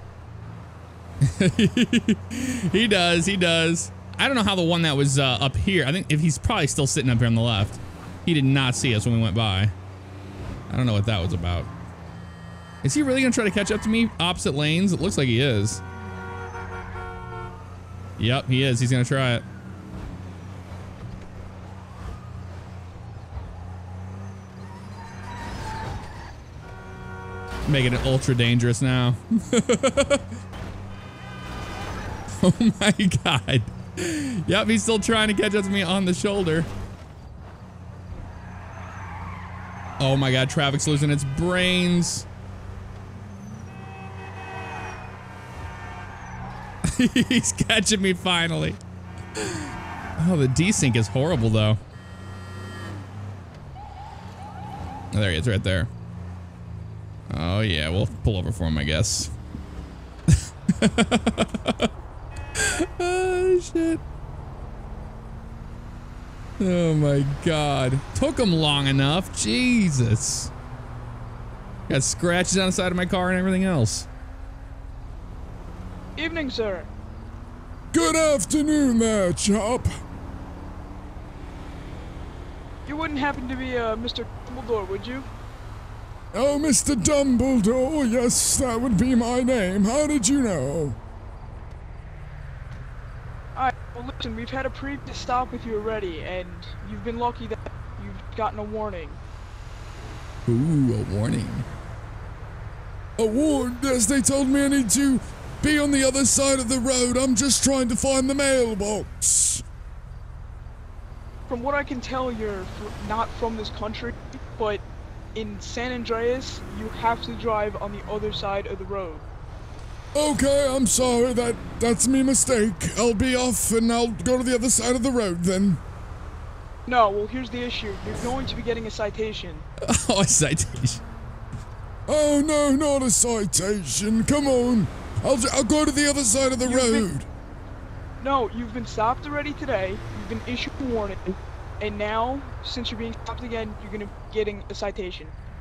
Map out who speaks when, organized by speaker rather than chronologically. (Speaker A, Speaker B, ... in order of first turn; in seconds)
Speaker A: 1.2-9.7, 10.7-11.7, 12.8-15.8, 18.2-19.4, 27.7-30.2, 32.4-36.7, 40.0-42.3, 46.9-48.8, 49.4-51.8, 55.1-55.9, 57.3-59.3, 60.3-61.9, 62.6-64.0, 66.6-70.5, 71.9-74.1, 100.5-101.7, 129.8-131.0
Speaker B: 76.2-76.9, 82.9-85.3, 93.5-99.2, 111.5-114.8, 115.3-119.2, 126.9-129.7, 136.6-137.1, 138.2-145.3
Speaker C: 77.9-79.9, 86.3-91.0, 103.2-109.6, 120.1-125.8, 132.1-137.3